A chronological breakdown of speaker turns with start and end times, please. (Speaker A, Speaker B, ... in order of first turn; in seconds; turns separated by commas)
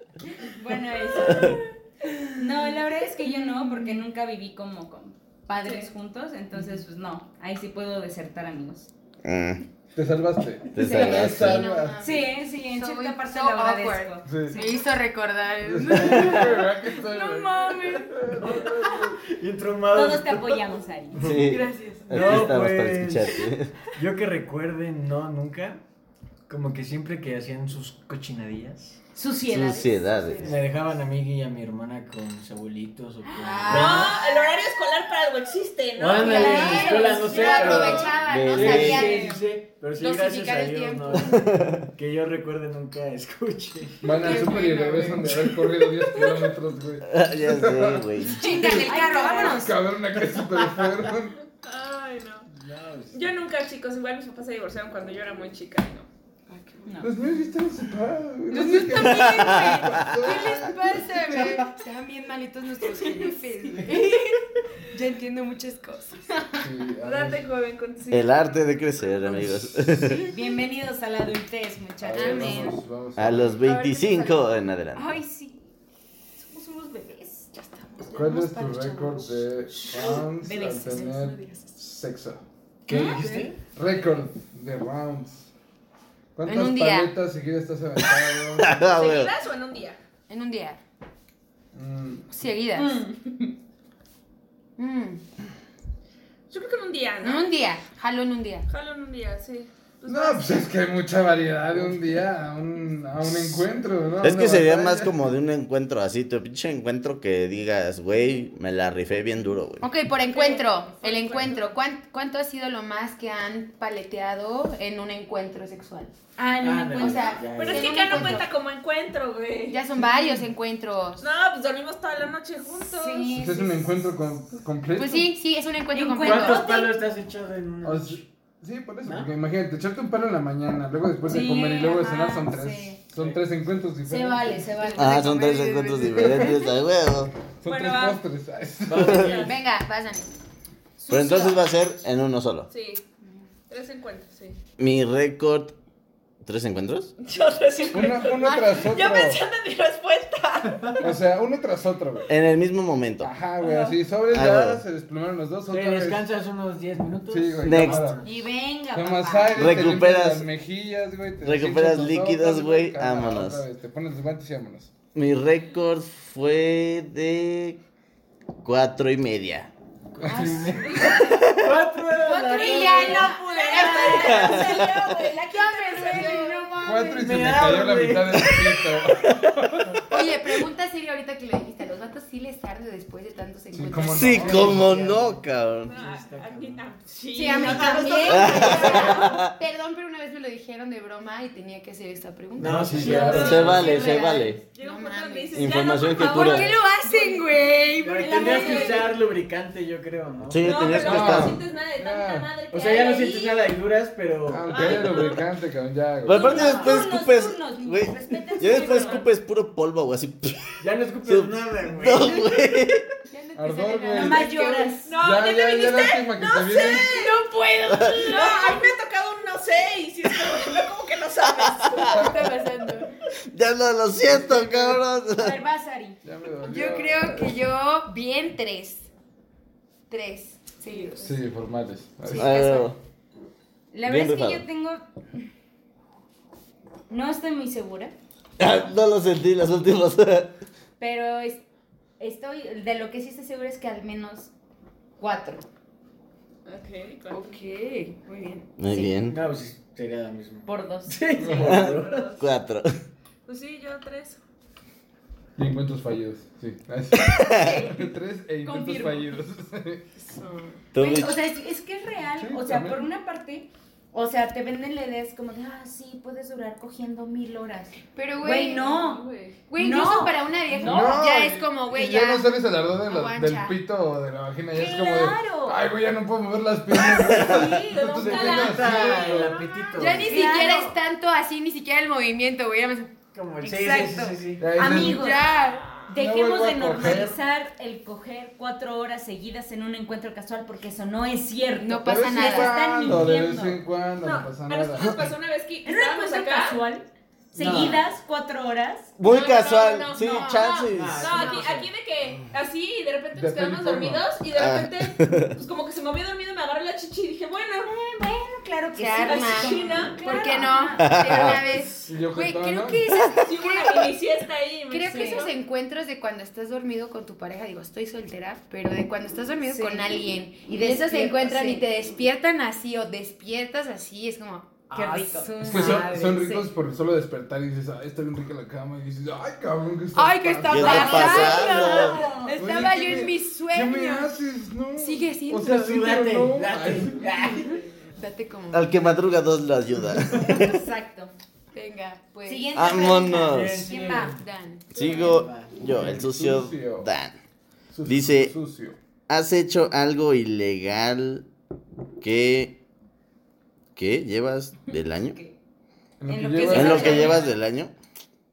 Speaker A: 0.4-1.6, Speaker A: 2.3-8.9, Speaker B: 3.2-4.0, Speaker C: 5.6-5.9, Speaker D: 9.2-9.6, Speaker E: 9.9-12.2, Speaker D: 10.7-11.7, Speaker B: 10.8-18.7, Speaker A: 10.9-11.2, Speaker A: 12.0-14.8, Speaker E: 14.2-14.6, Speaker E: 15.6-19.2, Speaker F: 18.4-23.4, Speaker A: 19.9-21.3, Speaker D: 21.2-23.7, Speaker B: 21.4-22.5, Speaker F: 23.9-25.8, Speaker F: 26.5-29.0, Speaker A: 29.1-30.0, Speaker D: 29.5-30.5, Speaker B: 30.2-30.5, Speaker F: 30.4-34.1, Speaker A: 33.2-34.0, Speaker B: 33.4-34.3, Speaker C: 33.6-37.1, Speaker F: 36.0-44.1, Speaker A: 36.2-38.1, Speaker B: 36.2-39.4, Speaker D: 38.2-39.2, Speaker A: 38.9-39.4, Speaker B: 40.0-41.5, Speaker D: 41.3-41.8, Speaker E: 44.0-51.4, Speaker B: 44.1-45.5, Speaker C: 46.1-46.5, Speaker D: 47.0-48.4, Speaker B: 48.2-49.8, Speaker A: 48.4-49.7, Speaker C: 51.6-52.5, Speaker F: 52.5-53.3, Speaker C: 53.1-56.8, Speaker A: 56.8-57.1, Speaker E: 57.0-61.6, Speaker B: 58.5-66.5, Speaker D: 59.0-60.1, Speaker E: 66.6-67.4, Speaker C: 67.0-69.4, Speaker D: 68.1-70.3, Speaker A: 70.2-72.8, Speaker E: 72.0-73.6, Speaker B: 72.2-72.8, Speaker D: 73.2-75.1, Speaker C: 73.6-74.4, Speaker B: 74.0-74.3, Speaker A: 74.9-75.7, Speaker A: 76.4-77.5, Speaker B: 77.5-80.2, Speaker E: 78.1-82.4, Speaker A: 80.0-81.4, Speaker B: 81.2-81.7, Speaker F: 82.8-83.6, Speaker A: 82.9-83.4, Speaker E: 83.7-85.5, Speaker E: 86.3-88.9, Speaker B: 86.5-87.1, Speaker D: 88.6-89.3, Speaker C: 88.8-90.0, Speaker B: 90.3-90.8, Speaker E: 91.7-92.3, Speaker B: 92.3-93.0, Speaker A: 92.7-93.5, Speaker B: 94.8-95.2, Speaker C: 96.5-97.6, Speaker B: 97.2-98.7, Speaker C: 98.7-100.6, Speaker E: 100.0-105.3, Speaker D: 104.2-109.9, Speaker B: 109.8-116.1, Speaker A: 110.3-111.6, Speaker A: 116.4-117.4, Speaker F: 116.6-118.4, Speaker B: 117.0-118.5, Speaker C: 117.4-119.9, Speaker B: 119.7-121.2, Speaker A: 120.0-120.4, Speaker C: 121.2-123.4, Speaker A: 122.8-124.1, Speaker E: 123.3-125.3, Speaker B: 125.0-126.7, Speaker A: 125.9-127.0, Speaker F: 126.2-128.3, Speaker E: 127.8-134.6, Speaker F: 129.0-129.3, Speaker A: 131.2-133.0, Speaker A: 134.1-135.6, Speaker B: 134.8-136.6, Speaker D: 134.9-137.3, Speaker E: 136.1-136.5, Speaker E: 137.6-139.3, Speaker C: 137.6-138.2, Speaker F: 138.8-139.5, Speaker C: 139.0-139.5, Speaker B: 139.3-140.3, Speaker A: 141.0-141.6, Speaker D: 141.1-142.7, Speaker C: 142.7-143.0, Speaker C: 143.7-144.6, Speaker D: 144.8-145.7, Speaker D: 146.4-147.1, Speaker C: 147.2-151.1, Speaker E: 147.9-149.4, Speaker B: 148.4-148.8, Speaker E: 151.0-152.3, Speaker D: 152.3-153.3, Speaker E: 153.2-156.2, Speaker C: 153.6-154.0, Speaker D: 154.3-154.8, Speaker F: 155.7-158.4, Speaker E: 157.3-158.2, Speaker D: 157.6-158.1, Speaker A: 158.2-159.9, Speaker E: 158.9-164.9, Speaker D: 159.6-160.5, Speaker D: 161.4-163.6, Speaker D: 165.1-167.8, Speaker D: 168.6-169.7, Speaker F: 170.1-173.4, Speaker E: 170.2-171.0, Speaker A: 170.8-171.3, Speaker B: 170.8-171.2, Speaker D: 171.2-171.6, Speaker A: 172.2-174.9, Speaker B: 172.2-177.4, Speaker C: 172.5-176.7, Speaker D: 174.2-174.7, Speaker A: 176.1-176.4, Speaker E: 176.8-180.0, Speaker F: 177.0-179.3, Speaker B: 180.1-184.7, Speaker E: 183.7-184.9, Speaker D: 184.1-185.9, Speaker F: 184.3-186.9, Speaker C: 185.8-189.3, Speaker B: 187.3-199.1, Speaker A: 187.4-189.1, Speaker F: 187.5-188.8, Speaker D: 188.2-189.5, Speaker F: 192.6-194.2, Speaker E: 192.6-193.8, Speaker D: 193.3-194.6, Speaker C: 193.6-197.4, Speaker D: 195.5-196.7, Speaker F: 198.0-201.0, Speaker A: 198.2-199.1, Speaker D: 200.5-201.6, Speaker C: 200.6-203.7, Speaker E: 200.9-202.5, Speaker F: 202.7-205.3, Speaker E: 204.5-206.8, Speaker C: 204.7-205.4, Speaker D: 206.2-213.0, Speaker A: 206.3-209.3, Speaker C: 208.6-209.2, Speaker F: 210.8-212.5, Speaker B: 213.3-215.0, Speaker E: 213.6-214.5, Speaker A: 214.1-215.1, Speaker C: 215.1-217.4, Speaker E: 215.2-217.2, Speaker B: 216.8-218.9, Speaker C: 218.1-222.4, Speaker D: 221.7-222.2, Speaker B: 222.1-223.1, Speaker D: 223.5-225.6, Speaker E: 224.3-225.0, Speaker A: 225.3-226.2, Speaker E: 226.2-227.6, Speaker B: 226.6-229.1, Speaker B: 230.1-231.4, Speaker C: 230.9-231.2, Speaker E: 231.2-232.5, Speaker B: 232.3-232.9, Speaker D: 232.3-233.0, Speaker A: 233.9-235.0, Speaker D: 234.1-234.6, Speaker A: 237.1-238.1, Speaker D: 238.6-240.5, Speaker A: 241.0-241.6, Speaker A: 242.2-244.5, Speaker A: 245.2-245.6, Speaker C: 246.7-247.6, Speaker B: 247.3-248.7, Speaker D: 248.8-249.4, Speaker A: 248.9-249.1, Speaker F: 249.2-252.3, Speaker A: 250.7-251.2, Speaker E: 251.4-251.8, Speaker D: 251.6-253.0, Speaker C: 251.7-252.5, Speaker C: 253.4-254.4, Speaker E: 255.6-260.0, Speaker D: 257.2-257.8, Speaker A: 257.6-258.1, Speaker A: 258.6-259.3, Speaker B: 260.2-260.8, Speaker D: 260.9-261.4, Speaker A: 260.9-271.2, Speaker E: 262.4-263.0, Speaker B: 268.1-268.9, Speaker C: 268.6-269.6, Speaker B: 269.7-273.8, Speaker E: 270.7-279.6, Speaker A: 274.7-275.8, Speaker C: 277.2-280.9, Speaker A: 277.2-278.7, Speaker D: 277.4-277.6, Speaker F: 278.2-280.4, Speaker B: 280.0-283.1, Speaker A: 280.2-281.0, Speaker F: 283.3-284.8, Speaker A: 283.6-293.8, Speaker E: 284.6-285.4, Speaker B: 284.8-285.9, Speaker C: 285.5-286.0, Speaker E: 286.1-287.4, Speaker B: 291.8-292.9, Speaker E: 292.0-295.3, Speaker C: 294.2-296.8, Speaker A: 295.8-299.2, Speaker F: 297.5-298.1, Speaker D: 299.2-301.4, Speaker B: 299.2-301.6, Speaker F: 300.9-301.9, Speaker C: 301.1-307.9, Speaker E: 303.3-304.3, Speaker D: 304.5-305.6, Speaker A: 307.8-311.6, Speaker B: 309.0-314.1, Speaker C: 309.2-310.7, Speaker D: 311.0-311.6, Speaker E: 312.1-313.0, Speaker C: 313.3-315.5, Speaker B: 314.9-326.6, Speaker A: 315.0-315.5, Speaker A: 319.6-321.9, Speaker A: 324.9-326.6, Speaker E: 325.6-331.3, Speaker B: 330.1-334.4, Speaker D: 330.6-332.2, Speaker A: 330.8-333.2, Speaker E: 332.5-337.3, Speaker B: 334.9-335.7, Speaker F: 335.6-337.8, Speaker B: 337.4-338.9, Speaker D: 338.7-340.7, Speaker A: 340.4-341.3, Speaker B: 341.7-343.3, Speaker A: 342.4-344.4, Speaker D: 342.7-343.8, Speaker F: 343.4-344.4, Speaker B: 344.3-345.3, Speaker D: 344.9-347.3, Speaker C: 345.0-345.4, Speaker F: 345.0-345.9, Speaker E: 345.8-347.1, Speaker E: 347.9-349.0, Speaker D: 348.0-348.5, Speaker D: 349.3-351.4, Speaker D: 352.2-352.8, Speaker D: 353.9-355.4, Speaker A: 355.2-355.6, Speaker E: 356.2-357.4, Speaker A: 356.3-357.5, Speaker D: 356.7-357.9